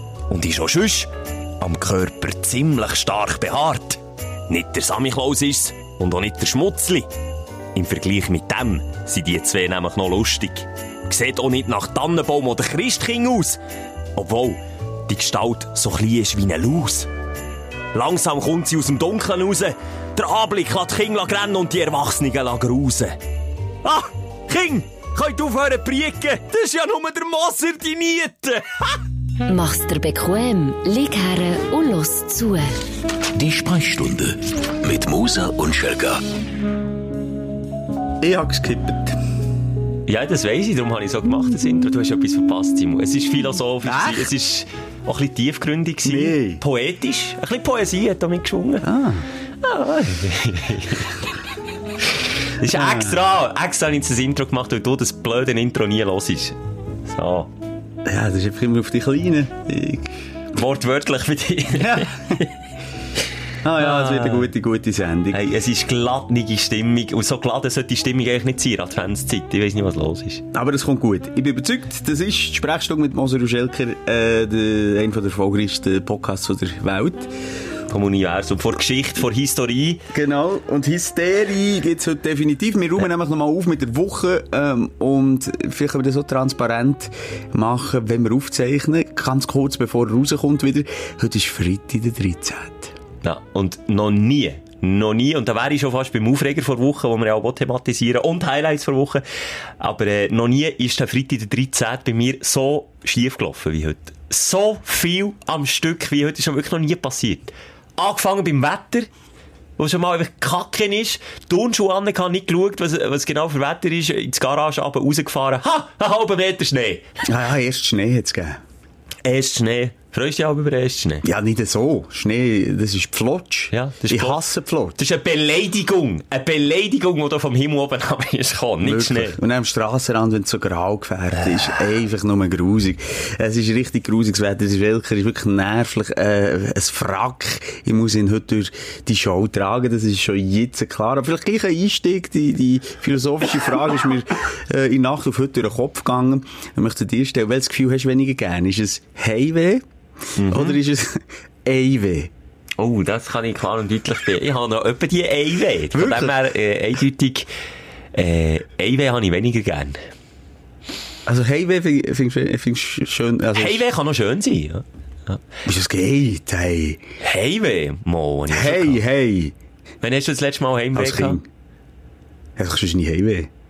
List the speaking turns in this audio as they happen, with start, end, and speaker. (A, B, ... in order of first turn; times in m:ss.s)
0:00.3-0:07.1 A
0:07.7-0:13.6 A
0:14.1-0:17.1 A
0:17.9-0:23.2 A
0:23.8-0:29.0 A
0:29.5-0:32.8 B
0:33.3-0:36.2 C
0:38.2-0:39.2 D
0:40.0-0:48.9 A
0:43.8-0:44.3 D
0:46.0-0:46.6 D
0:48.8-0:49.2 D
0:49.6-0:51.2 A
0:52.6-0:57.5 A
0:52.7-0:53.2 D
0:58.0-1:00.1 D
1:00.5-1:02.5 A
1:01.8-1:02.4 D
1:03.6-1:05.4 D
1:03.8-1:04.5 A
1:05.3-1:10.4 A
1:10.5-1:17.3 D
1:17.9-1:20.0 A
1:20.1-1:32.9 D
1:33.2-1:39.2 A
1:39.8-1:49.1 A
1:49.8-1:57.1 A
1:57.2-1:58.6 D
1:59.2-2:01.2 A
2:01.2-2:05.0 D
2:03.7-2:04.4 A
2:05.0-2:09.4 A
2:08.8-2:29.8 D
2:30.4-2:30.8 A
2:30.4-2:32.3 D
2:32.8-2:37.5 A
2:35.9-2:36.4 D
2:38.1-2:40.0 A
2:41.2-2:43.8 D
2:43.5-2:45.4 A
2:45.6-2:47.0 D
2:47.2-2:49.0 A
2:48.5-2:49.5 D
2:50.0-2:51.4 A
2:50.9-2:51.4 D
2:52.6-2:53.5 D